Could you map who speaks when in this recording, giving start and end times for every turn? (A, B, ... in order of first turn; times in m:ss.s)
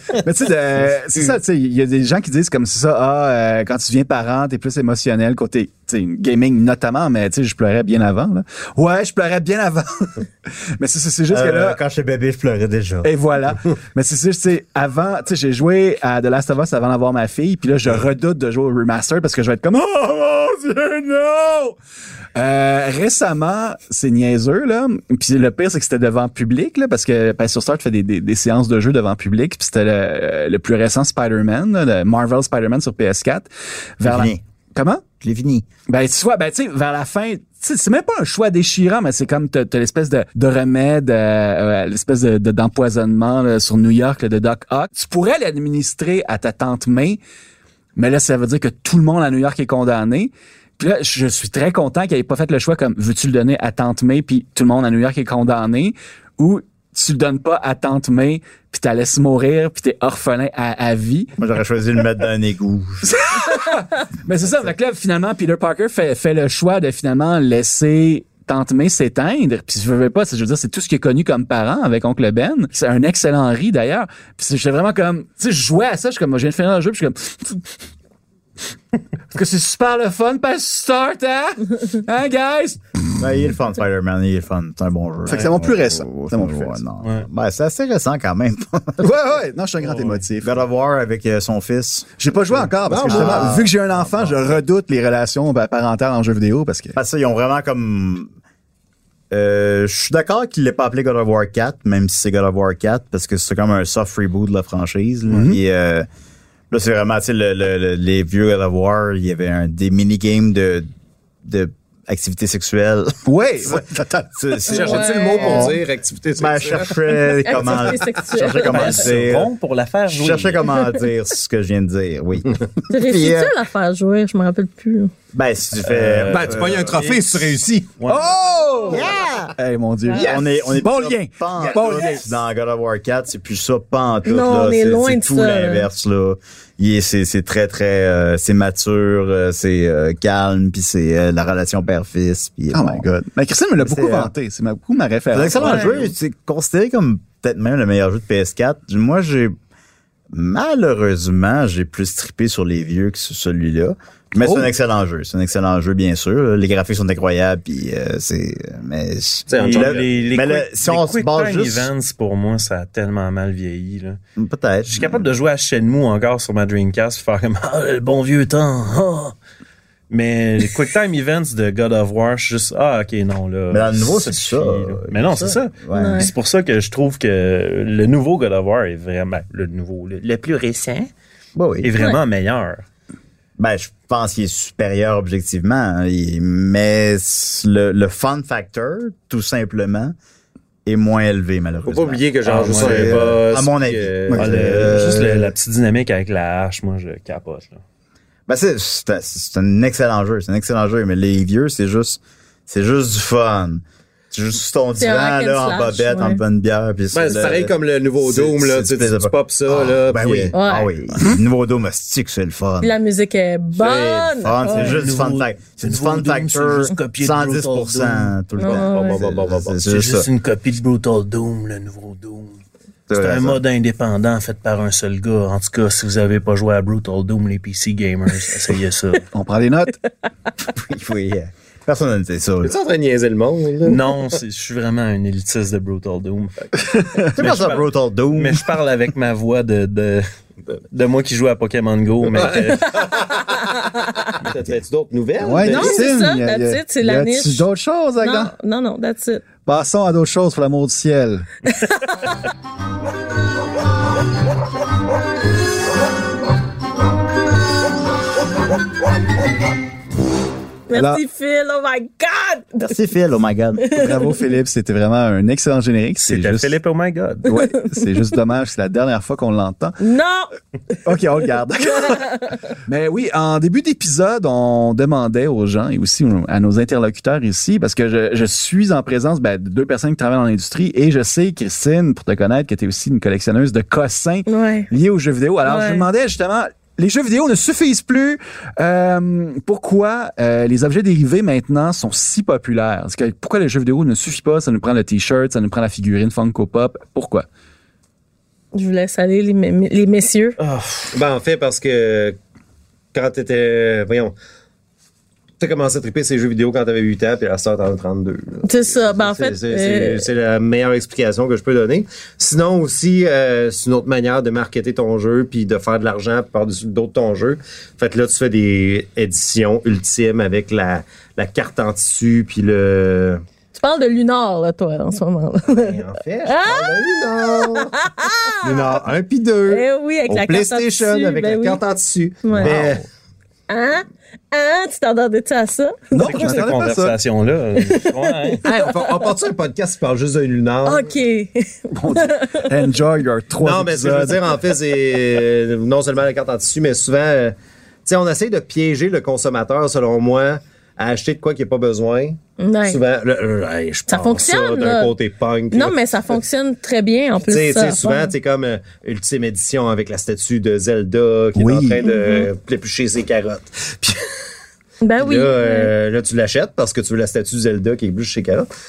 0:00.2-0:11.8 A
0:11.3-0:13.1 B
0:13.0-0:21.8 A
0:22.4-0:33.5 A
0:34.0-0:35.0 A
0:34.0-0:34.4 B
0:35.2-0:35.7 B
0:35.9-0:47.2 A
0:48.0-1:01.4 A
1:01.4-1:03.4 B
1:03.0-1:17.7 A
1:19.3-1:23.2 A
1:23.2-1:29.1 B
1:25.3-1:26.8 A
1:29.0-1:30.6 A
1:29.8-1:30.2 C
1:30.4-1:32.2 B
1:32.2-1:37.0 A
1:32.8-1:33.7 D
1:32.8-1:34.4 B
1:36.9-1:38.4 B
1:39.3-1:46.1 B
1:45.3-1:45.6 A
1:46.7-1:50.9 B
1:51.4-1:55.8 B
1:53.2-1:54.1 A
1:54.7-1:55.7 E
1:54.7-1:57.0 D
1:56.4-1:59.5 B
1:57.4-1:59.0 E
1:58.7-2:00.6 C
2:00.1-2:03.5 B
2:02.9-2:05.1 E
2:05.3-2:07.2 B
2:05.8-2:07.1 C
2:06.3-2:08.0 D
2:08.0-2:08.4 C
2:08.1-2:12.3 A
2:08.9-2:09.5 B
2:10.1-2:23.1 B
2:11.6-2:12.1 D
2:14.2-2:15.9 E
2:22.7-2:26.1 A
2:23.8-2:24.3 B
2:25.3-2:29.6 B
2:25.6-2:25.9 E
2:30.3-2:41.9 B
2:34.4-2:34.7 A
2:39.5-2:40.1 D
2:39.6-2:44.2 C
2:44.4-2:45.2 B
2:44.9-2:49.4 C
2:50.1-3:01.1 C
2:53.7-2:56.3 B
2:55.9-2:56.3 E
3:01.6-3:02.0 B
3:01.8-3:02.8 C
3:03.6-3:10.2 B
3:10.9-3:15.5 B
3:11.9-3:15.2 D
3:12.4-3:13.6 C
3:14.4-3:17.8 C
3:18.5-3:33.0 B
3:25.0-3:26.4 E
3:27.1-3:30.5 D
3:30.5-3:30.9 E
3:32.8-3:35.0 E
3:33.8-3:40.3 B
3:34.7-3:38.4 C
3:38.6-3:39.2 E
3:38.7-3:39.8 D
3:39.8-3:42.6 C
3:43.1-3:43.6 B
3:43.1-3:49.3 C
3:49.3-3:50.0 A
3:50.8-3:52.7 B
3:52.6-3:54.3 D
3:53.8-4:00.3 C
3:56.8-3:57.3 A
3:57.4-3:58.7 B
4:00.9-4:03.2 C
4:02.4-4:03.3 D
4:03.7-4:04.3 E
4:04.3-4:06.1 D
4:05.4-4:08.5 A
4:05.7-4:07.7 E
4:08.2-4:09.4 E
4:09.6-4:11.7 A
4:20.9-4:22.9 E
4:20.9-4:21.2 A
4:22.8-4:24.0 B
4:23.8-4:24.3 E
4:23.9-4:26.7 A
4:26.2-4:27.5 C
4:27.4-4:30.0 A
4:27.5-4:28.0 E
4:30.0-4:30.5 E
4:31.0-4:57.5 A
4:31.9-4:32.6 E
4:44.5-4:44.9 E
4:45.6-4:46.1 E
4:58.7-5:00.6 E
5:00.6-5:01.0 C
5:01.1-5:02.4 D
5:03.1-5:04.4 D
5:05.6-5:23.4 D
5:08.6-5:10.3 E
5:23.8-5:29.0 E
5:25.7-5:27.9 D
5:28.6-5:33.0 D
5:29.7-5:31.8 E
5:32.4-5:32.8 E
5:32.6-5:32.9 A
5:33.7-5:36.6 E
5:36.1-5:37.2 A
5:36.2-5:38.6 C
5:37.8-5:39.1 E
5:38.6-5:41.1 D
5:40.8-5:42.8 E
5:41.9-5:44.7 A
5:43.6-5:56.4 D
5:52.6-5:53.0 E
5:54.1-5:55.2 E
5:55.7-5:58.3 E
5:57.4-6:04.2 D
6:01.6-6:02.0 A
6:02.0-6:02.5 E
6:05.0-6:05.9 E
6:05.2-6:08.7 D